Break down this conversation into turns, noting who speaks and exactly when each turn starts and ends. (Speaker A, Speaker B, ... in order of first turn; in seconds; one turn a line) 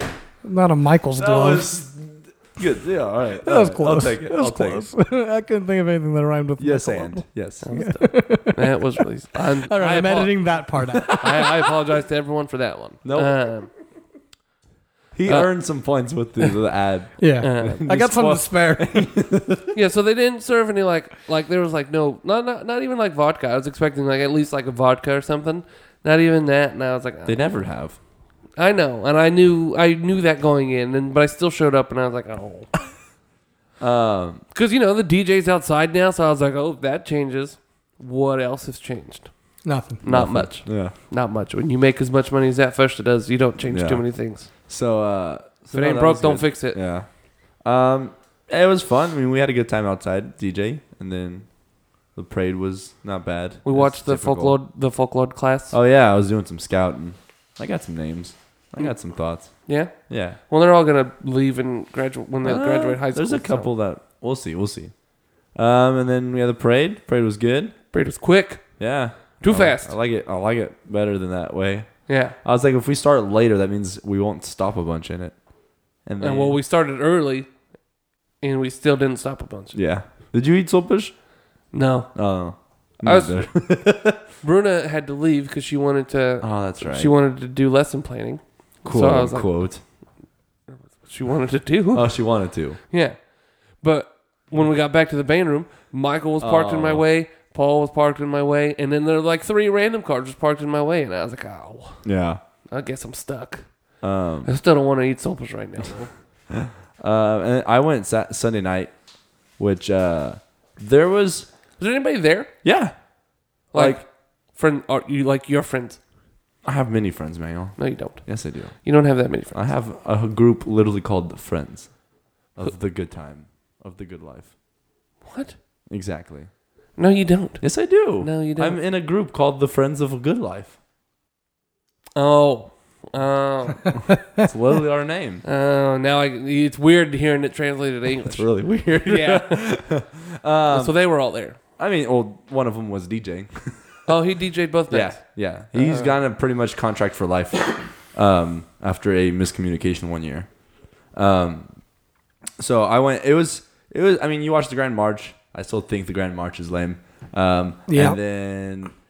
Speaker A: 0.4-1.7
Speaker B: 1.2-4.9
Speaker A: 3.4-8.8
Speaker B: 6.6-7.7
Speaker C: 7.6-10.5
Speaker A: 9.7-11.2
Speaker B: 10.9-11.8
Speaker C: 11.2-13.7
Speaker B: 13.0-13.4
Speaker B: 15.1-19.7
Speaker C: 15.3-15.5
Speaker A: 17.2-19.2
Speaker C: 17.4-17.8
Speaker C: 19.7-27.7
Speaker B: 27.2-28.0
Speaker C: 28.6-32.8
Speaker B: 33.8-34.4
Speaker C: 34.5-44.5
Speaker A: 39.6-40.0
Speaker B: 40.1-41.0
Speaker B: 43.7-51.5
Speaker C: 45.7-46.8
Speaker B: 52.1-54.6
Speaker C: 53.6-55.8
Speaker B: 55.7-60.4
Speaker C: 59.6-63.7
Speaker B: 62.4-65.0
Speaker B: 65.5-67.8
Speaker C: 67.9-69.9
Speaker B: 68.8-75.4
Speaker C: 72.1-72.3
Speaker B: 76.0-76.6
Speaker C: 76.2-77.5
Speaker C: 78.4-79.8
Speaker B: 79.7-81.2
Speaker C: 81.7-82.3
Speaker B: 82.1-84.2
Speaker C: 83.0-89.5
Speaker B: 86.4-87.1
Speaker B: 88.8-89.8
Speaker C: 90.8-102.1
Speaker B: 91.9-92.8
Speaker B: 96.4-97.0
Speaker B: 102.0-102.4
Speaker C: 102.7-106.1
Speaker B: 104.0-104.5
Speaker B: 106.5-108.9
Speaker B: 109.6-111.5
Speaker C: 111.8-112.5
Speaker B: 112.6-113.0
Speaker B: 113.7-114.0
Speaker C: 113.7-116.0
Speaker B: 116.6-118.8
Speaker C: 117.8-119.6
Speaker B: 119.5-122.0
Speaker B: 122.5-124.5
Speaker C: 125.2-125.6
Speaker B: 125.9-126.5
Speaker C: 127.0-128.8
Speaker B: 127.6-130.8
Speaker C: 132.2-134.1
Speaker B: 134.4-135.4
Speaker C: 135.4-138.5
Speaker B: 138.3-140.9
Speaker C: 139.0-139.8
Speaker C: 140.7-141.6
Speaker B: 141.8-144.0
Speaker C: 144.1-146.2
Speaker B: 144.9-150.5
Speaker B: 151.1-151.7
Speaker B: 152.6-158.9
Speaker A: 157.9-158.2